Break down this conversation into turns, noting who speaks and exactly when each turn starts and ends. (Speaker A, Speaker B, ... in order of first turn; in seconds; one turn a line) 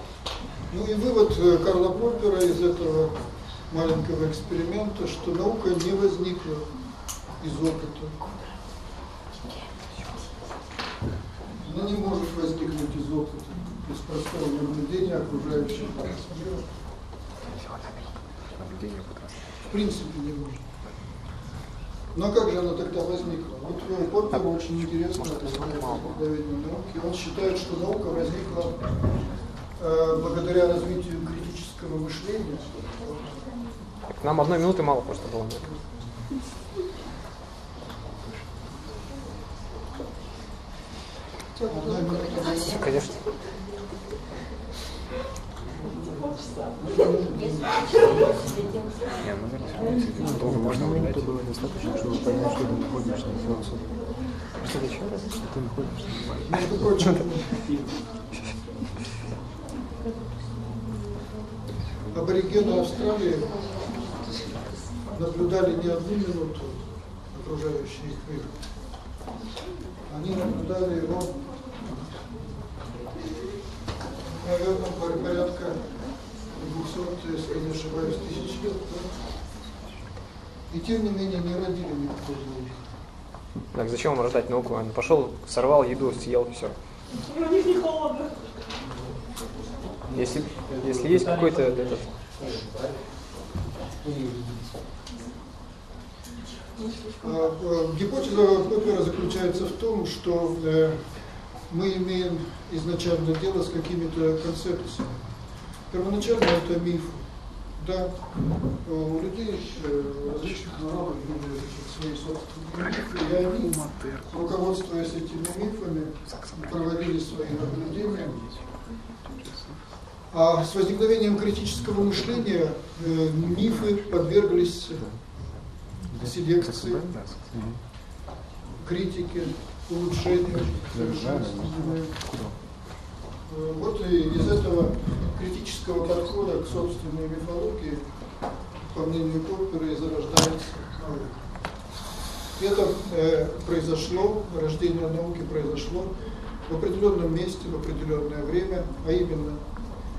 Speaker A: 0.7-8.3
Speaker A: 11.6-16.7
Speaker B: 18.6-19.3
Speaker A: 19.7-20.6
Speaker A: 22.1-33.3
Speaker B: 24.4-26.1
Speaker B: 34.2-35.7
Speaker A: 41.5-42.8
Speaker B: 42.7-43.2
Speaker A: 45.8-48.4
Speaker B: 49.2-51.6
Speaker C: 49.3-54.2
Speaker B: 54.6-55.4
Speaker C: 55.4-56.4
Speaker A: 56.5-57.6
Speaker A: 62.1-63.8
Speaker A: 65.1-68.6
Speaker A: 70.1-72.0
Speaker A: 74.4-79.2
Speaker A: 80.7-82.9
Speaker B: 83.7-86.7
Speaker B: 90.1-92.1
Speaker A: 97.2-118.4
Speaker C: 113.7-114.2
Speaker A: 120.3-125.4
Speaker A: 126.1-127.3
Speaker B: 126.6-127.4
Speaker C: 127.1-127.8
Speaker A: 128.8-132.3
Speaker C: 130.6-132.6
Speaker A: 133.4-141.9
Speaker A: 142.6-149.9